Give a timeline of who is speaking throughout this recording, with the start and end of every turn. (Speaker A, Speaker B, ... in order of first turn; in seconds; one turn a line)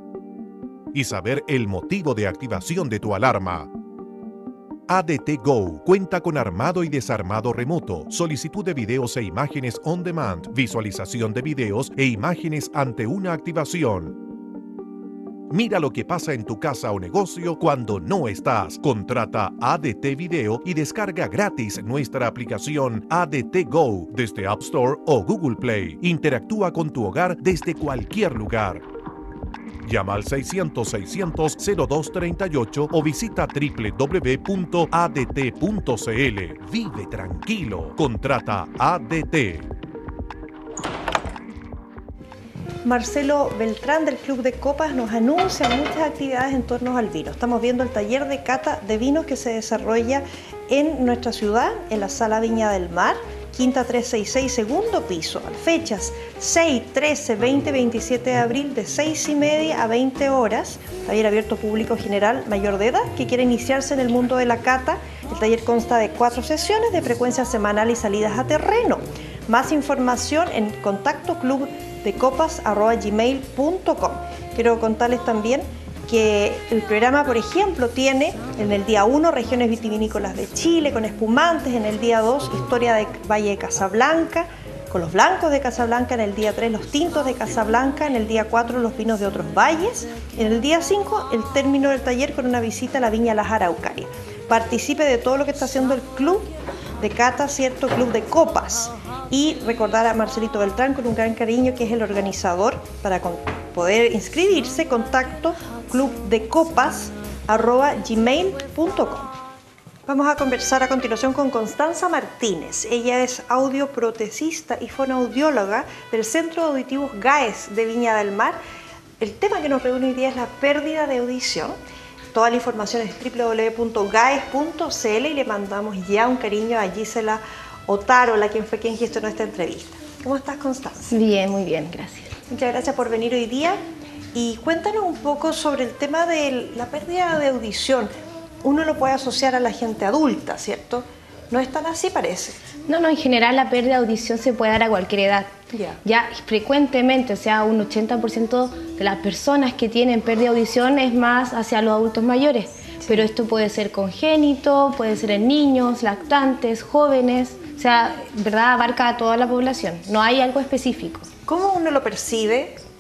Speaker A: 0.9-3.7
Speaker A: 4.9-14.2
Speaker A: 15.5-28.8
Speaker A: 29.8-39.7
Speaker B: 42.8-109.3
Speaker B: 110.1-118.6
Speaker B: 119.2-121.8
Speaker B: 122.3-131.2
Speaker C: 131.1-132.3
Speaker B: 132.5-133.8
Speaker B: 134.3-138.1
Speaker B: 138.6-142.6
Speaker C: 142.9-145.5
Speaker B: 145.7-146.0
Speaker C: 146.0-161.3
Speaker B: 153.0-153.3
Speaker B: 161.5-162.8